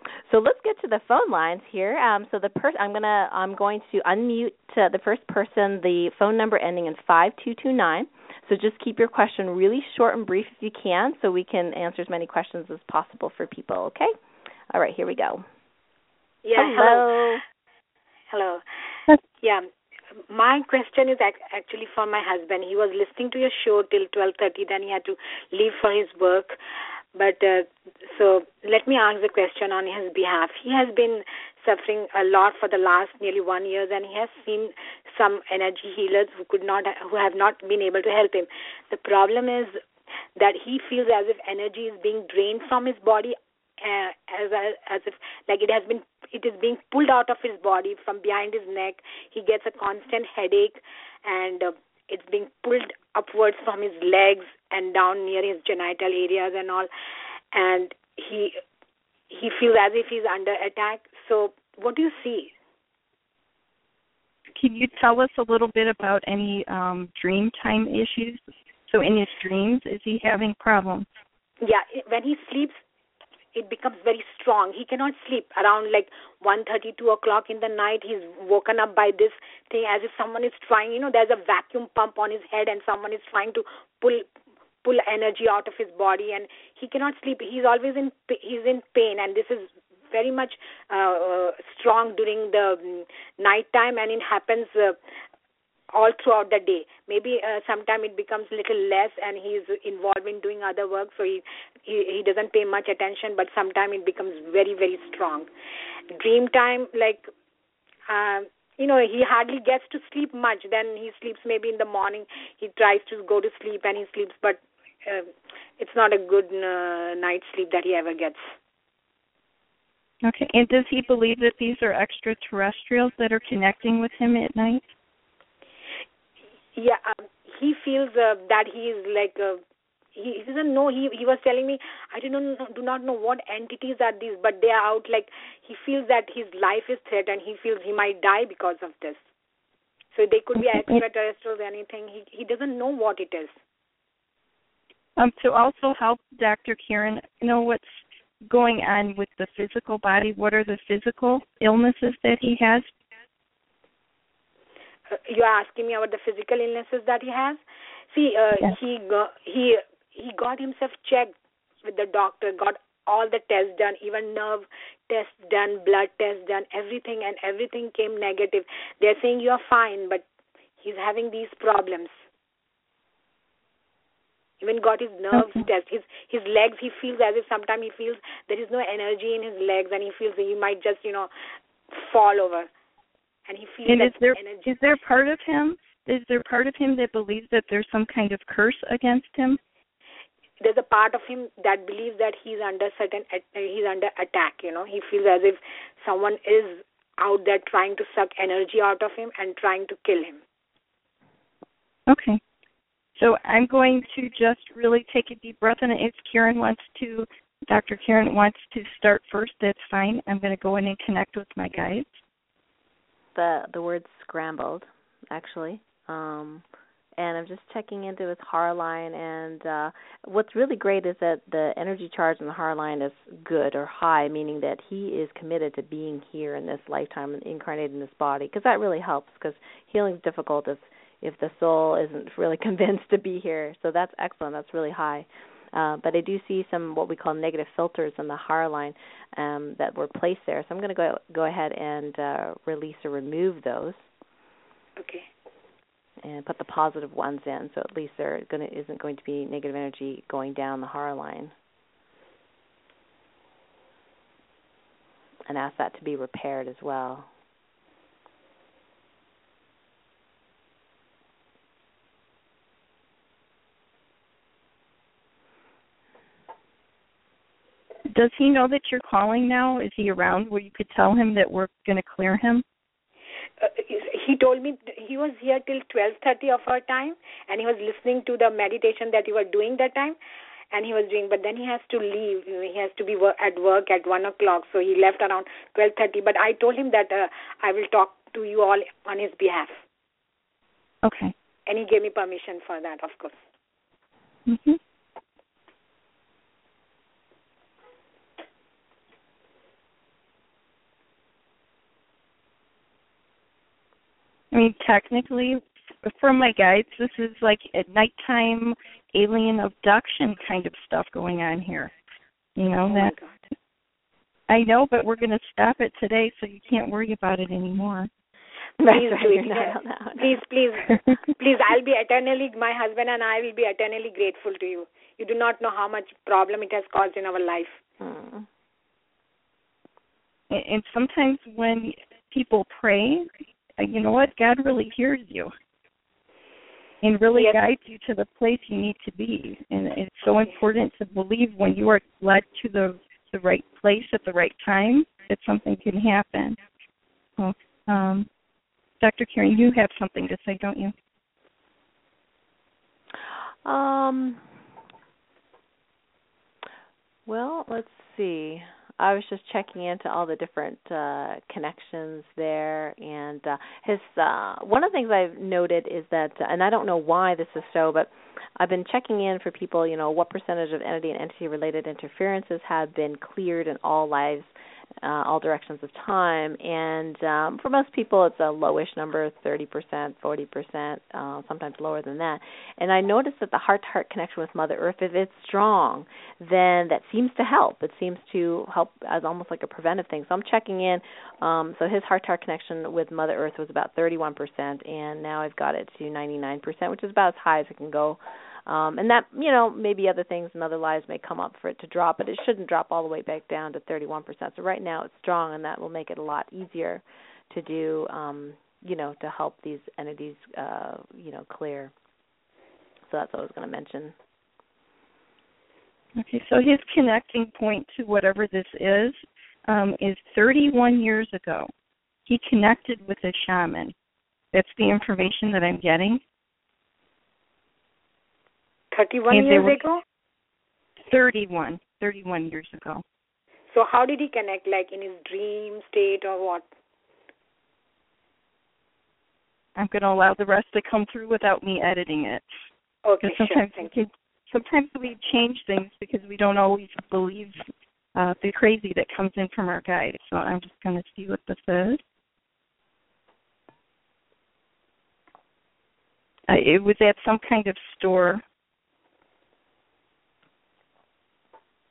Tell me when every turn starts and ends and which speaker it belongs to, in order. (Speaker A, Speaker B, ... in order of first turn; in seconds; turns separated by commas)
Speaker A: 0.3-14.1, Speaker A: 14.7-15.4, Speaker B: 16.4-17.2, Speaker A: 16.6-17.4, Speaker B: 18.3-18.6, Speaker B: 19.4-19.7, Speaker B: 20.3-26.6, Speaker B: 27.1-39.8, Speaker B: 40.4-56.9, Speaker B: 57.5-58.5, Speaker B: 59.3-62.5, Speaker C: 64.5-71.0, Speaker B: 71.6-72.8, Speaker B: 73.5-84.2, Speaker B: 84.8-95.0, Speaker B: 95.9-105.5, Speaker B: 106.1-107.2, Speaker B: 108.1-118.4, Speaker C: 120.2-124.8, Speaker B: 126.7-129.6, Speaker B: 130.1-139.2, Speaker B: 140.1-143.5, Speaker C: 140.6-141.0, Speaker C: 145.2-152.9, Speaker B: 155.1-157.6, Speaker B: 158.1-170.2, Speaker B: 170.8-172.1, Speaker B: 174.6-181.3, Speaker C: 175.3-175.6, Speaker B: 181.9-182.7, Speaker B: 183.5-184.7, Speaker C: 183.8-189.6, Speaker B: 190.6-200.4, Speaker C: 202.1-202.4, Speaker C: 203.2-212.1, Speaker A: 213.3-216.6, Speaker A: 217.2-244.0, Speaker B: 245.0-245.3, Speaker A: 246.2-251.5, Speaker A: 255.5-257.3, Speaker C: 268.1-272.6, Speaker B: 273.6-280.1, Speaker B: 280.7-289.8, Speaker C: 291.0-291.3, Speaker B: 291.6-293.4, Speaker C: 294.5-294.8, Speaker C: 304.5-311.9, Speaker C: 312.6-313.1, Speaker B: 312.9-313.4, Speaker C: 314.5-318.1, Speaker A: 318.8-320.3, Speaker B: 318.9-327.8, Speaker A: 328.0-328.5, Speaker C: 330.5-333.3, Speaker C: 333.8-335.5, Speaker C: 337.0-346.6, Speaker C: 347.4-348.3, Speaker C: 349.0-350.9, Speaker A: 353.6-354.4, Speaker A: 357.3-374.5, Speaker A: 375.0-411.9, Speaker A: 413.1-414.1, Speaker C: 416.2-421.7, Speaker C: 422.2-423.9, Speaker C: 424.5-426.2, Speaker B: 428.9-430.0, Speaker C: 429.3-429.8, Speaker C: 431.1-433.0, Speaker B: 433.7-436.6, Speaker C: 439.8-442.4, Speaker B: 443.0-443.9, Speaker C: 443.2-447.6, Speaker C: 448.1-452.0, Speaker C: 456.5-458.4